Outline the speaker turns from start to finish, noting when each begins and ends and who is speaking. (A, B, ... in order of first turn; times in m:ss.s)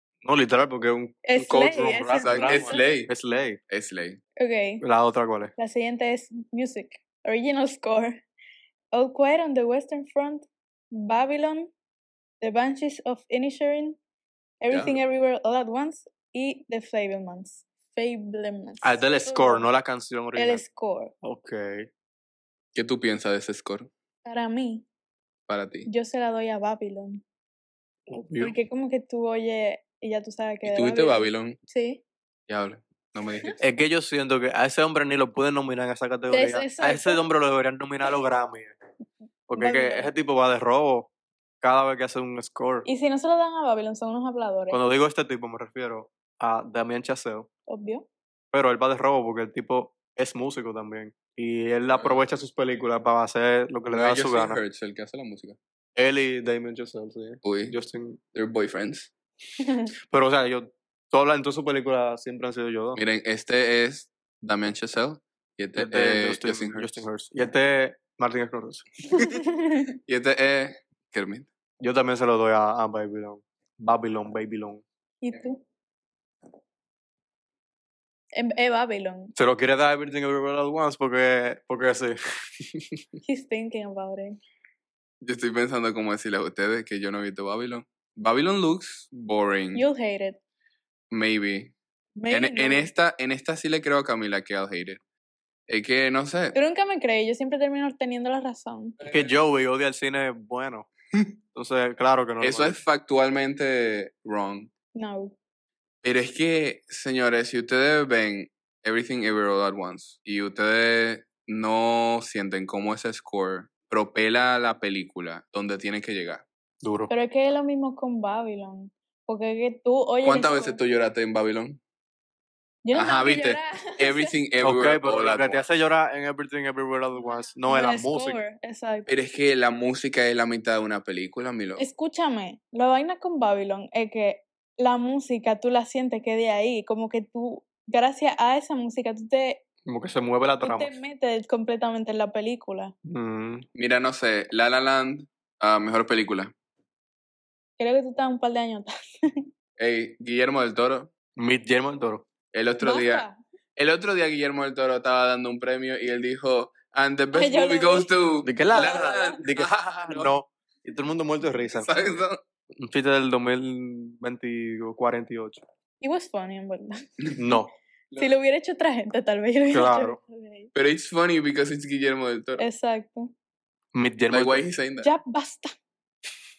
0:00.2-0:03.6 A
0:01.2-0:02.8 B
0:02.2-0:03.1 C
0:03.7-0:04.2 C
0:04.4-0:04.8 B
0:04.8-0:05.5 A
0:05.6-0:08.2 B
0:08.9-0:11.7 B
0:12.4-0:14.0 B
0:14.6-0:19.7 B
0:18.8-0:20.6 A
0:20.4-0:21.1 B
0:21.2-0:21.9 A
0:22.7-0:23.9 C
0:24.2-0:24.9 B
0:25.5-0:25.9 C
0:25.9-0:27.2 B
0:28.1-0:28.6 A
0:28.4-0:32.0 B
0:30.6-0:31.6 C
0:32.5-0:33.6 C
0:33.6-0:38.8 A
0:36.3-0:37.2 B
0:39.5-0:41.1 A
0:39.6-0:40.1 B
0:41.6-0:42.9 A
0:42.8-0:44.8 B
0:44.7-0:47.5 A
0:47.7-0:48.1 B
0:48.5-0:54.6 A
0:52.0-0:52.2 C
0:53.9-0:55.6 C
0:56.0-0:58.2 A
0:57.4-0:57.8 C
0:58.4-0:59.1 C
0:59.6-0:59.9 B
1:00.0-1:03.0 A
1:03.0-1:07.0 C
1:05.8-1:08.9 A
1:09.1-1:09.9 B
1:10.1-1:11.5 C
1:11.8-1:14.8 A
1:15.2-1:15.6 B
1:18.4-1:19.3 B
1:19.4-1:23.0 A
1:23.2-1:24.4 B
1:25.2-1:29.9 C
1:29.7-1:30.4 B
1:31.1-1:31.7 C
1:32.2-1:32.9 B
1:32.3-1:35.0 C
1:35.7-1:36.6 C
1:36.5-1:39.0 B
1:39.0-1:39.3 C
1:39.0-1:40.9 A
1:41.5-1:42.8 A
1:42.4-1:44.7 C
1:44.9-1:45.4 B
1:46.0-1:56.5 C
1:56.8-1:57.1 A
1:57.1-2:00.8 B
2:00.2-2:01.8 C
2:02.8-2:04.3 B
2:02.9-2:05.6 C
2:04.6-2:08.4 A
2:07.7-2:09.1 B
2:09.1-2:11.8 C
2:11.8-2:19.6 B
2:19.9-2:21.0 A
2:20.6-2:22.9 B
2:23.0-2:23.7 A
2:23.8-2:26.5 C
2:27.8-2:29.4 B
2:29.8-2:31.1 C
2:31.4-2:32.3 A
2:32.5-2:40.3 C
2:32.8-2:33.4 B
2:37.3-2:38.1 B
2:38.4-2:42.2 A
2:38.7-2:39.4 B
2:41.8-2:42.4 C
2:42.8-2:45.6 A
2:46.0-2:47.0 B
2:47.4-2:47.7 A
2:48.1-2:48.4 C
2:48.2-2:50.7 B
2:49.7-2:50.2 A
2:50.7-2:52.7 C
2:52.6-2:53.3 B
2:53.9-2:54.6 A
2:54.3-2:55.1 C
2:55.0-2:55.7 B